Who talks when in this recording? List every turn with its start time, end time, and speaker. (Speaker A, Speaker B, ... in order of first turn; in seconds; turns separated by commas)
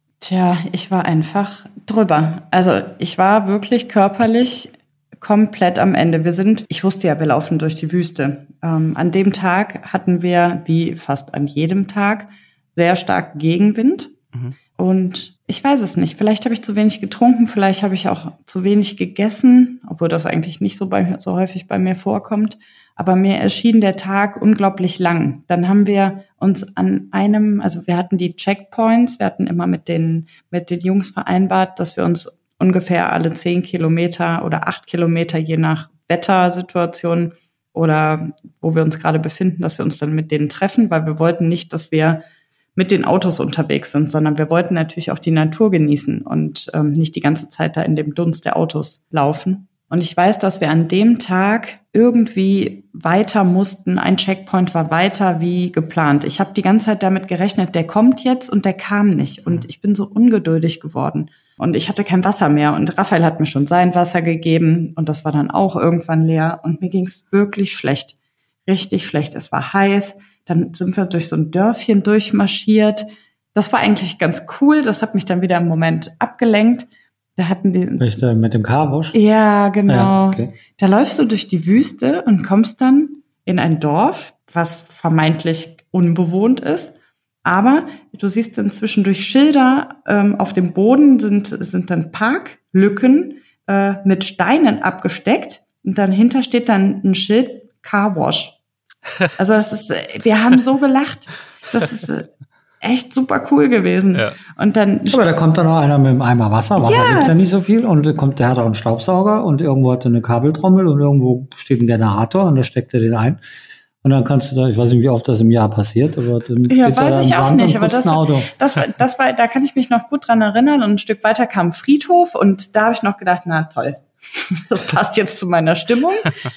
Speaker A: 0.2-14.1, Speaker A: 14.8-42.2, Speaker A: 42.8-68.1, Speaker A: 68.7-78.0, Speaker B: 78.0-79.2, Speaker A: 79.1-98.6, Speaker B: 79.9-80.5, Speaker A: 99.4-102.3, Speaker A: 102.8-105.2, Speaker B: 105.1-113.4, Speaker A: 106.8-107.3, Speaker B: 114.0-118.5, Speaker A: 116.7-126.3